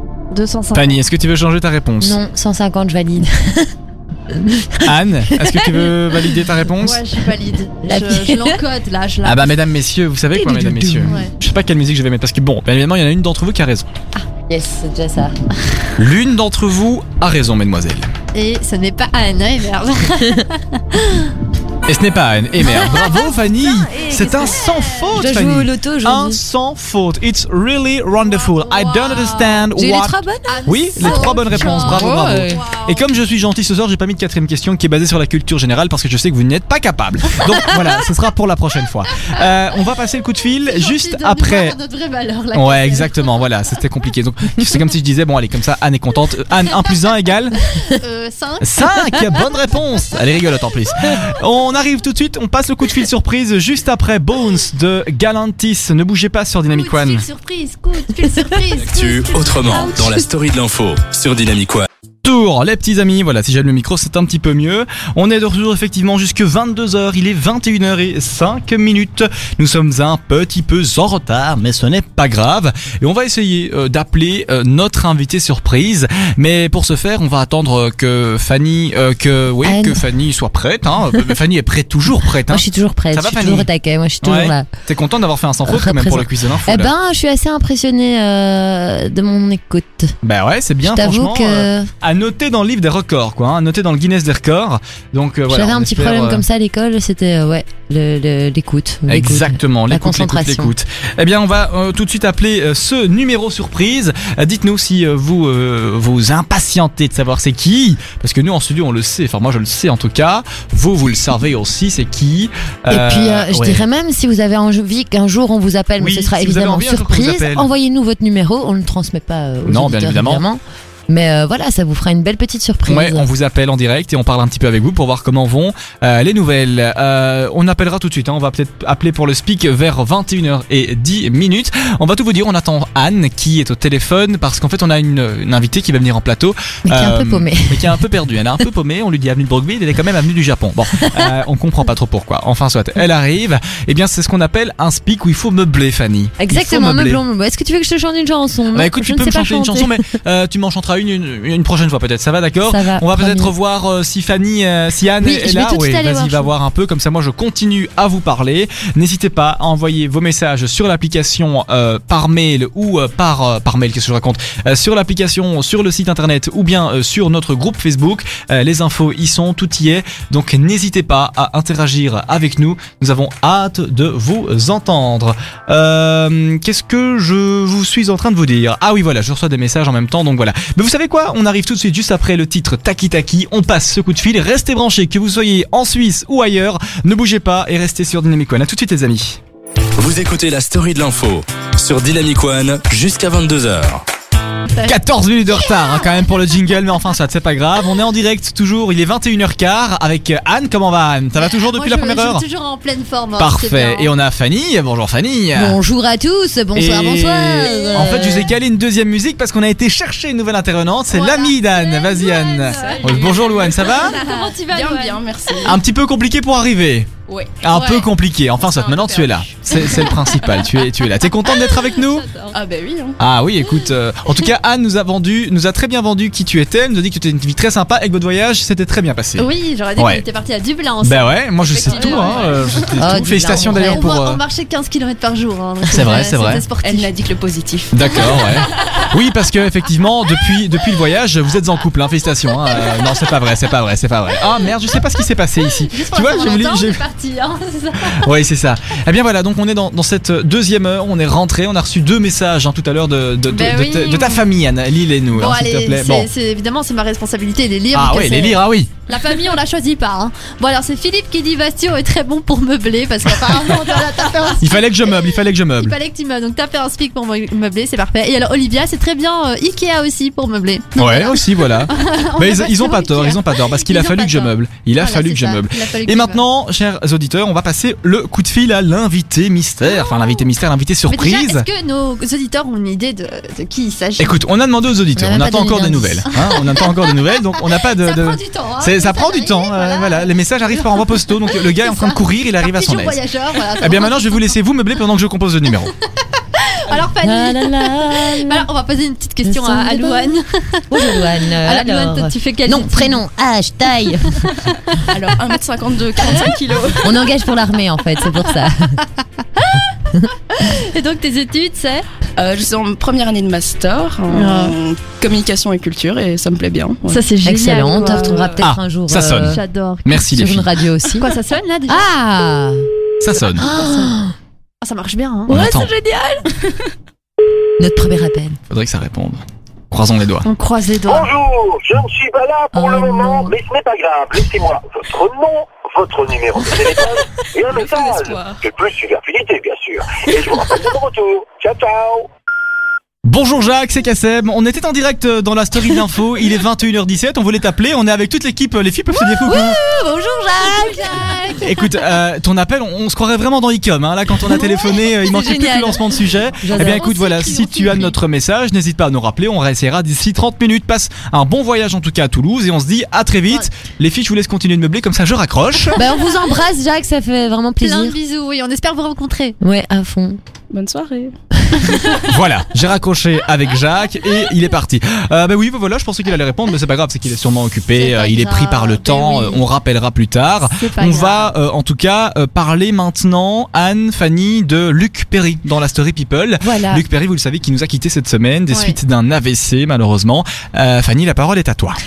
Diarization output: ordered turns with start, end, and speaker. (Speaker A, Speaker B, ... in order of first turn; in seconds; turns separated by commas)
Speaker A: 0.3-1.0, Speaker B: 0.7-2.2, Speaker C: 2.0-3.7, Speaker C: 4.3-6.5, Speaker B: 4.8-7.0, Speaker A: 6.8-9.6, Speaker C: 7.8-8.6, Speaker B: 9.2-13.9, Speaker C: 10.3-11.2, Speaker A: 11.0-11.3, Speaker C: 14.5-15.3, Speaker B: 16.0-18.1, Speaker A: 18.3-21.3, Speaker B: 21.9-30.1, Speaker C: 22.6-26.4, Speaker A: 24.3-25.1, Speaker A: 28.2-29.6, Speaker C: 29.7-32.6, Speaker A: 30.5-33.0, Speaker B: 30.6-41.8, Speaker A: 40.6-43.1, Speaker B: 42.5-47.7, Speaker A: 47.8-49.0, Speaker B: 48.6-57.2, Speaker A: 56.7-60.2, Speaker D: 58.7-61.9, Speaker B: 62.2-83.7, Speaker C: 79.6-80.0, Speaker C: 82.5-84.7, Speaker B: 84.2-86.9, Speaker C: 85.7-90.2, Speaker B: 90.2-96.4, Speaker C: 90.8-91.9, Speaker C: 95.5-100.7, Speaker B: 99.1-113.8, Speaker C: 112.9-123.3, Speaker B: 116.0-117.7, Speaker B: 119.7-120.4, Speaker B: 122.9-147.2, Speaker C: 136.8-138.0, Speaker C: 141.0-141.3, Speaker C: 146.4-150.0, Speaker B: 148.7-189.4, Speaker C: 152.6-153.5, Speaker C: 155.2-156.5, Speaker D: 190.0-194.0, Speaker A: 194.7-195.0, Speaker B: 194.8-202.4, Speaker A: 201.5-204.1, Speaker B: 203.4-205.8, Speaker C: 205.5-208.6, Speaker B: 206.7-214.1, Speaker A: 211.1-215.7, Speaker E: 212.6-215.8, Speaker B: 215.6-217.1, Speaker E: 217.3-217.6, Speaker B: 217.6-222.2, Speaker A: 217.7-218.1, Speaker E: 218.6-220.2, Speaker A: 221.4-222.6, Speaker E: 222.5-223.2, Speaker B: 223.2-230.2, Speaker A: 229.4-232.9, Speaker B: 231.0-234.4, Speaker E: 231.7-232.9, Speaker C: 233.0-234.1, Speaker A: 233.5-237.1, Speaker B: 235.9-236.6, Speaker E: 236.8-238.9, Speaker B: 237.9-247.0, Speaker A: 245.9-248.2, Speaker B: 248.2-256.3, Speaker A: 253.5-254.4, Speaker A: 255.3-276.4, Speaker B: 257.9-258.9, Speaker B: 264.6-266.0, Speaker B: 270.9-281.7, Speaker A: 279.8-280.4, Speaker A: 281.1-284.4, Speaker B: 284.2-293.2, Speaker C: 285.1-286.3, Speaker A: 286.5-287.2, Speaker A: 287.8-294.6, Speaker B: 293.8-295.9, Speaker A: 296.5-303.2, Speaker C: 297.2-298.7, Speaker C: 299.4-304.5, Speaker E: 305.1-307.1, Speaker C: 307.0-309.0, Speaker A: 309.6-309.8, Speaker A: 310.5-312.1, Speaker E: 312.4-317.2, Speaker A: 314.3-314.7, Speaker A: 317.1-318.6, Speaker C: 317.4-319.6, Speaker B: 318.6-320.7, Speaker A: 319.5-320.2, Speaker C: 320.1-321.3, Speaker A: 321.1-322.1, Speaker C: 321.9-322.9, Speaker B: 323.2-323.6, Speaker C: 323.5-324.3, Speaker A: 323.6-324.1, Speaker A: 324.8-325.5, Speaker C: 325.5-326.5, Speaker B: 325.5-325.9, Speaker C: 327.8-328.6, Speaker B: 328.7-330.4, Speaker A: 330.4-331.3, Speaker F: 331.1-342.3, Speaker C: 332.7-333.5, Speaker E: 337.4-338.6, Speaker B: 343.2-349.8, Speaker C: 349.1-351.7, Speaker A: 350.8-351.6, Speaker B: 351.6-366.0, Speaker C: 354.4-357.1, Speaker A: 356.7-358.1, Speaker C: 365.9-368.1, Speaker A: 367.8-369.6, Speaker C: 369.6-370.4, Speaker E: 370.7-371.4, Speaker B: 372.2-392.0, Speaker A: 377.9-379.6, Speaker A: 380.6-381.5, Speaker C: 386.6-387.0, Speaker A: 388.7-389.0